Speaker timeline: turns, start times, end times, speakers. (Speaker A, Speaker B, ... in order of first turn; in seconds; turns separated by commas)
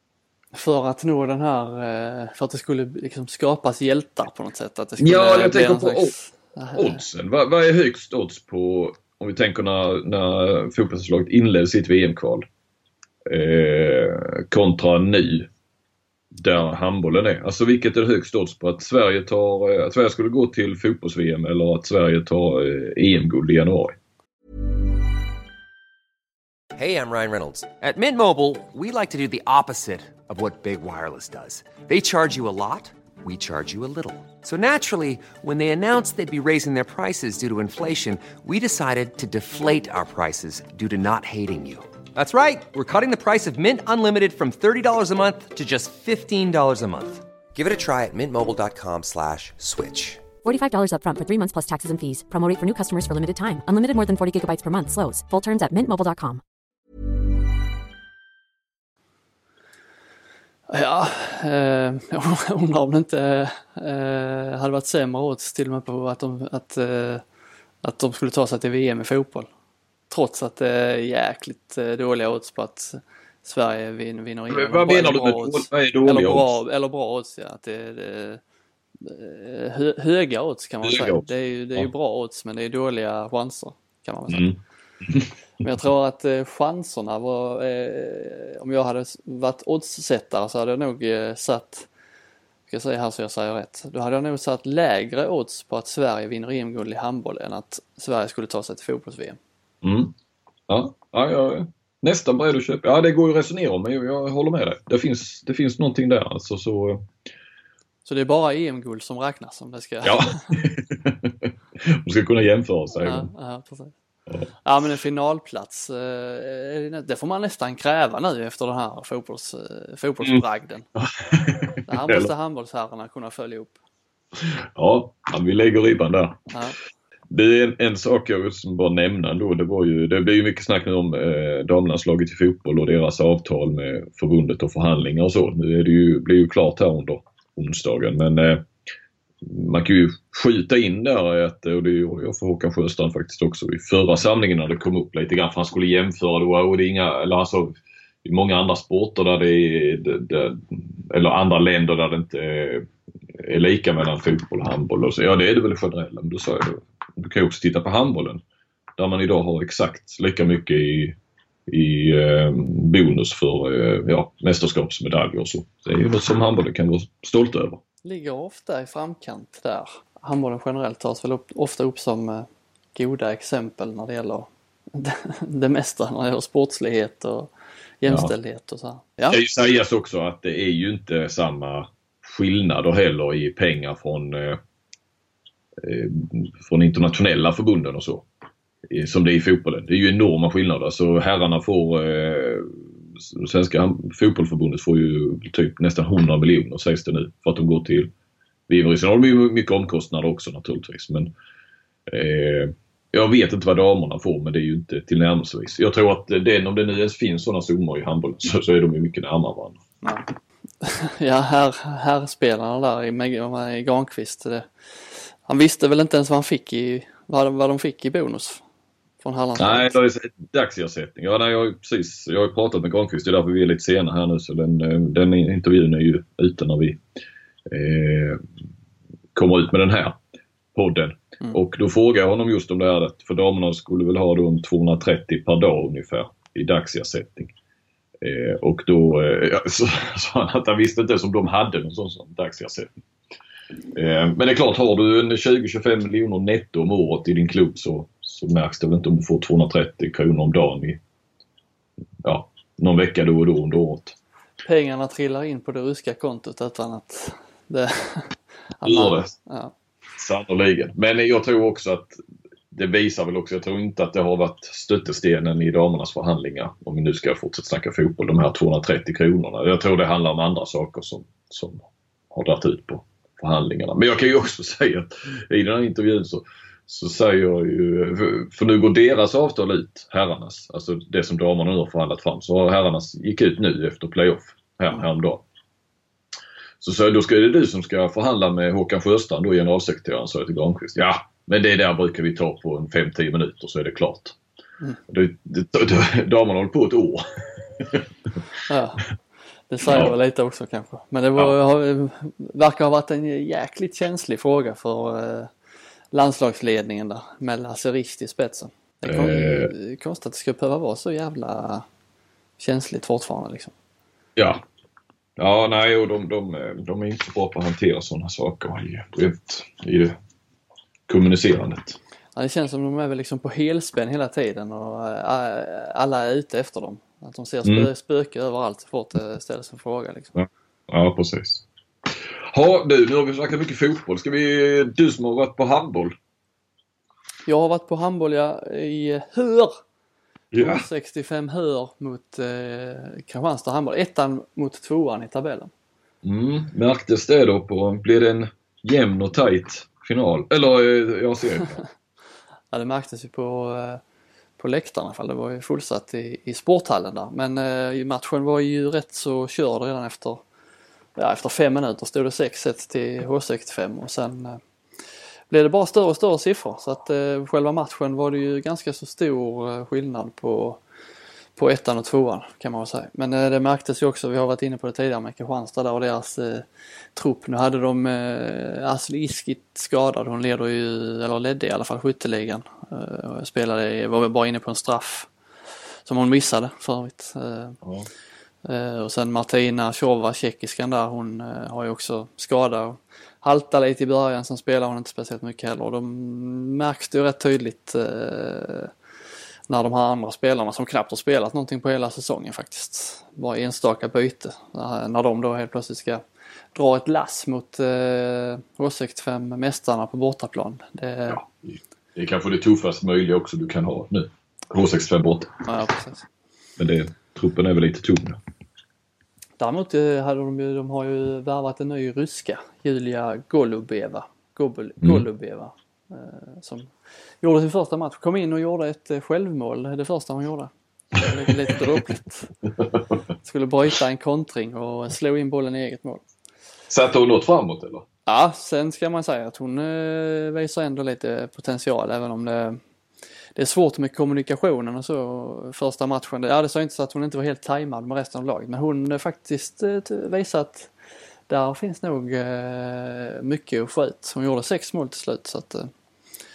Speaker A: 0.5-7.0, Speaker B: 5.0-6.1, Speaker B: 6.7-12.4, Speaker B: 13.2-15.5, Speaker B: 16.3-24.0, Speaker C: 26.7-50.2, Speaker D: 50.4-56.4, Speaker A: 60.7-67.2, Speaker A: 67.8-69.5, Speaker A: 70.1-78.4, Speaker B: 74.5-76.6, Speaker A: 79.0-84.5, Speaker B: 80.8-81.9, Speaker B: 84.3-85.3, Speaker A: 85.6-91.9, Speaker A: 92.7-99.4, Speaker B: 99.8-100.1, Speaker B: 100.7-107.1, Speaker A: 108.0-110.6, Speaker B: 110.0-113.3, Speaker A: 113.0-113.9, Speaker A: 114.6-120.9, Speaker B: 121.0-122.3, Speaker A: 121.9-123.8, Speaker B: 124.3-126.4, Speaker A: 126.5-126.8, Speaker B: 127.3-138.7, Speaker B: 139.4-158.4, Speaker B: 159.0-161.2, Speaker B: 161.7-167.8, Speaker A: 168.0-177.5, Speaker A: 178.0-179.4, Speaker B: 178.1-178.3, Speaker B: 179.3-184.6, Speaker B: 185.8-188.3, Speaker B: 188.9-198.1, Speaker B: 198.7-201.3, Speaker B: 202.1-209.8, Speaker A: 210.0-210.3, Speaker A: 210.8-218.6, Speaker A: 219.2-220.0, Speaker B: 219.6-227.0, Speaker B: 227.7-228.4, Speaker B: 229.3-230.2, Speaker B: 230.7-237.5, Speaker B: 238.2-242.9, Speaker B: 243.9-251.0, Speaker B: 252.2-254.2, Speaker A: 254.6-259.7, Speaker B: 258.8-259.3, Speaker B: 260.2-285.4, Speaker B: 286.8-294.4, Speaker B: 295.1-298.1, Speaker A: 298.7-299.1, Speaker A: 299.7-305.5, Speaker B: 299.9-300.1, Speaker A: 306.1-311.8, Speaker B: 309.1-309.7, Speaker A: 312.6-313.7, Speaker B: 314.4-314.6, Speaker B: 315.4-320.2, Speaker B: 321.1-322.0, Speaker A: 322.4-330.3, Speaker B: 330.4-336.2, Speaker A: 337.4-339.7, Speaker B: 340.5-340.9, Speaker A: 340.6-345.7, Speaker B: 346.2-351.8, Speaker A: 352.7-354.0, Speaker A: 354.6-360.4, Speaker A: 361.1-364.6, Speaker A: 365.5-370.8, Speaker A: 371.6-385.3, Speaker A: 386.0-387.8, Speaker B: 387.8-388.1, Speaker A: 388.6-398.9, Speaker A: 399.7-406.2, Speaker A: 406.7-411.4, Speaker B: 411.3-415.5, Speaker A: 415.6-416.3, Speaker B: 416.8-418.4, Speaker A: 419.6-432.5, Speaker A: 433.4-436.2, Speaker B: 436.9-438.0, Speaker A: 438.2-442.8, Speaker A: 443.5-450.9, Speaker A: 451.5-455.9